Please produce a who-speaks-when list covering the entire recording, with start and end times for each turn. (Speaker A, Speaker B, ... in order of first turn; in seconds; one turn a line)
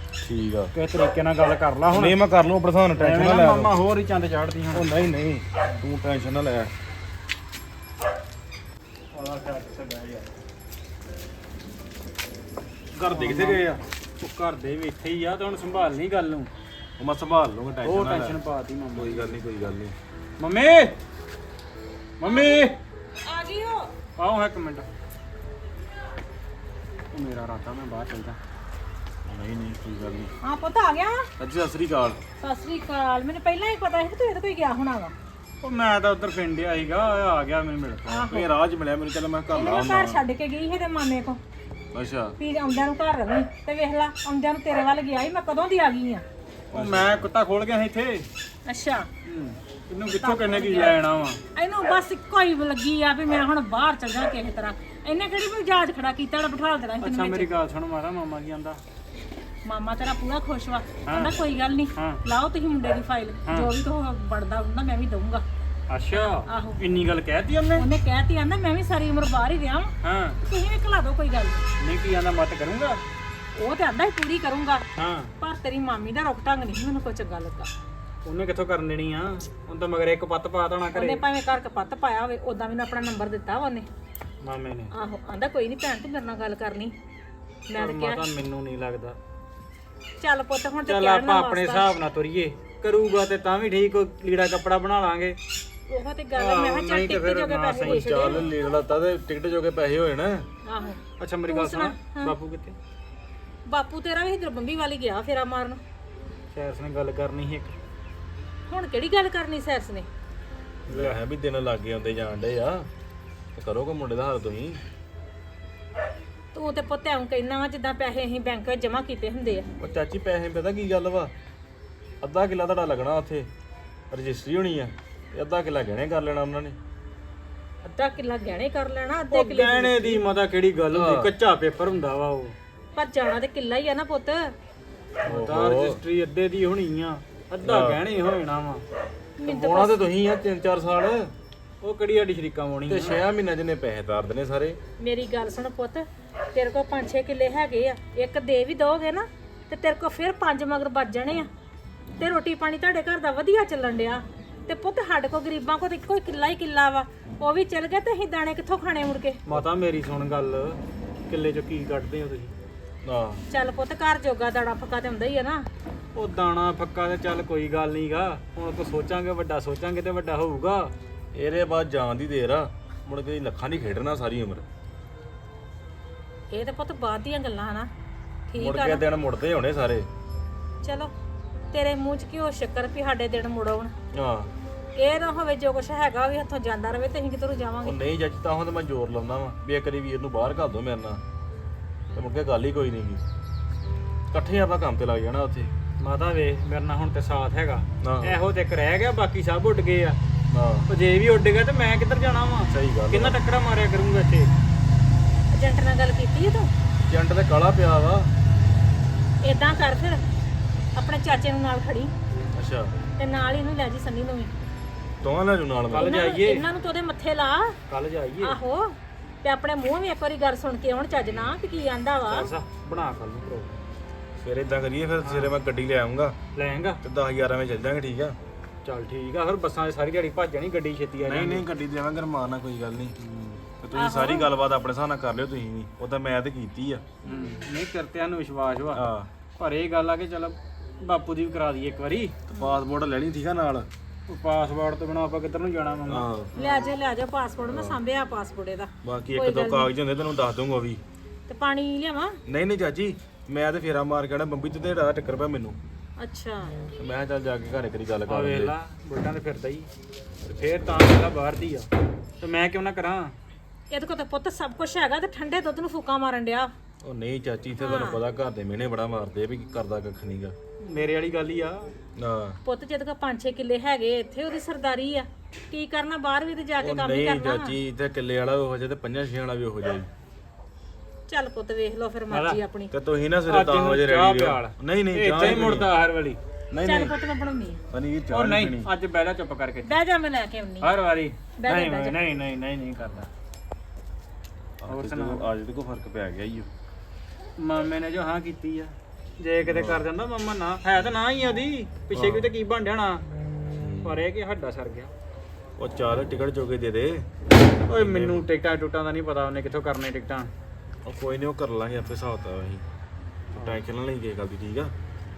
Speaker A: 0.2-0.7
Speaker B: 0.7-2.2
Speaker A: 1.9-3.7
Speaker B: 3.0-4.9
Speaker A: 4.7-6.7
Speaker B: 9.1-10.4
Speaker A: 12.9-13.8
Speaker B: 13.1-16.5
Speaker A: 17.0-18.4
Speaker B: 17.8-19.3
Speaker A: 18.9-19.9
Speaker B: 20.4-21.0
Speaker B: 22.2-22.8
Speaker C: 22.2-22.7
Speaker C: 23.2-23.9
Speaker B: 24.2-24.9
Speaker B: 27.1-28.4
Speaker A: 29.2-30.3
Speaker C: 30.4-31.3
Speaker A: 31.4-32.2
Speaker C: 32.4-35.1
Speaker B: 35.6-38.3
Speaker C: 38.1-38.5
Speaker A: 38.3-40.2
Speaker C: 39.5-41.4
Speaker A: 41.9-42.4
Speaker C: 42.4-46.2
Speaker A: 46.7-47.3
Speaker B: 46.7-48.3
Speaker C: 48.6-49.1
Speaker B: 49.2-51.4
Speaker C: 50.1-51.0
Speaker C: 51.5-57.5
Speaker B: 57.0-58.8
Speaker C: 59.6-65.4
Speaker B: 61.1-61.4
Speaker B: 62.0-62.2
Speaker B: 63.5-63.7
Speaker B: 65.9-67.9
Speaker C: 66.1-66.8
Speaker C: 67.8-71.7
Speaker B: 70.0-70.4
Speaker B: 71.8-73.0
Speaker C: 73.5-74.8
Speaker B: 75.0-75.3
Speaker C: 75.4-77.7
Speaker B: 78.2-81.2
Speaker C: 80.9-83.9
Speaker B: 84.4-84.9
Speaker C: 84.9-86.9
Speaker C: 87.7-88.3
Speaker B: 87.7-89.2
Speaker C: 90.2-91.9
Speaker B: 90.8-95.4
Speaker C: 95.9-98.4
Speaker B: 96.3-98.5
Speaker A: 97.8-100.5
Speaker C: 100.6-102.4
Speaker B: 101.2-102.8
Speaker C: 103.7-105.8
Speaker B: 106.5-107.8
Speaker C: 108.7-110.1
Speaker A: 110.9-112.8
Speaker B: 110.9-111.2
Speaker A: 113.5-114.8
Speaker C: 116.5-119.7
Speaker A: 119.8-121.3
Speaker A: 122.2-123.5
Speaker A: 124.1-126.8
Speaker C: 127.8-130.2
Speaker B: 129.3-132.6
Speaker A: 130.9-131.3
Speaker C: 132.9-134.5
Speaker B: 135.2-138.8
Speaker A: 135.2-136.0
Speaker A: 137.6-138.0
Speaker C: 139.4-140.0
Speaker A: 139.4-141.3
Speaker B: 141.8-143.2
Speaker A: 142.9-144.8
Speaker C: 145.0-151.5
Speaker C: 152.2-159.4
Speaker B: 159.5-162.5
Speaker A: 163.0-163.4
Speaker C: 163.5-165.7
Speaker B: 166.1-170.9
Speaker A: 171.3-174.7
Speaker C: 176.5-177.9
Speaker C: 178.5-179.0
Speaker A: 178.6-180.1
Speaker C: 180.8-181.1
Speaker C: 181.7-183.9
Speaker A: 184.1-184.5
Speaker C: 184.9-188.0
Speaker A: 187.8-191.2
Speaker A: 192.1-193.2
Speaker A: 194.3-195.7
Speaker B: 196.0-200.2
Speaker A: 198.0-198.3
Speaker A: 200.5-200.9
Speaker B: 200.9-204.5
Speaker A: 202.7-203.4
Speaker C: 205.5-206.7
Speaker A: 207.1-208.3
Speaker C: 209.4-210.2
Speaker C: 210.9-212.1
Speaker A: 212.5-212.9
Speaker C: 213.2-214.5
Speaker A: 215.2-216.2
Speaker B: 215.9-216.7
Speaker C: 216.0-217.8
Speaker B: 217.9-218.6
Speaker C: 218.4-222.5
Speaker B: 222.3-223.8
Speaker A: 224.4-226.3
Speaker B: 225.2-225.5
Speaker B: 226.5-227.0
Speaker A: 227.0-228.4
Speaker B: 228.8-231.7
Speaker A: 231.2-233.2
Speaker B: 233.2-233.6
Speaker A: 233.8-237.0
Speaker C: 233.9-234.5
Speaker B: 237.2-239.1
Speaker A: 238.9-239.3
Speaker B: 239.6-242.4
Speaker C: 242.5-242.8
Speaker A: 242.5-243.9
Speaker B: 244.3-246.8
Speaker A: 246.1-246.5
Speaker C: 246.5-249.9
Speaker A: 247.7-248.0
Speaker A: 249.0-251.0
Speaker C: 251.5-252.4
Speaker A: 252.4-255.8
Speaker C: 256.2-256.8
Speaker A: 256.9-258.7
Speaker B: 258.3-259.9
Speaker B: 260.4-261.9
Speaker B: 262.4-263.3
Speaker C: 263.9-266.7
Speaker A: 267.0-270.5
Speaker C: 267.8-268.2
Speaker B: 270.8-271.9
Speaker A: 272.1-272.6
Speaker C: 272.6-277.8
Speaker A: 276.8-280.1
Speaker C: 281.3-282.9
Speaker B: 282.3-282.6
Speaker A: 282.9-285.9
Speaker B: 283.5-286.4
Speaker A: 286.7-287.1
Speaker C: 286.8-287.8
Speaker A: 287.9-288.9
Speaker B: 288.3-290.0
Speaker C: 289.8-290.9
Speaker B: 290.8-293.3
Speaker C: 291.6-292.2
Speaker A: 294.8-296.7
Speaker B: 294.9-295.5
Speaker B: 297.6-303.2
Speaker A: 299.6-300.0
Speaker A: 302.1-302.5
Speaker A: 303.7-304.3
Speaker B: 304.0-305.1
Speaker A: 305.8-307.3
Speaker A: 307.9-308.4
Speaker B: 307.9-310.5
Speaker A: 311.0-312.8
Speaker A: 313.5-314.9
Speaker B: 313.5-313.8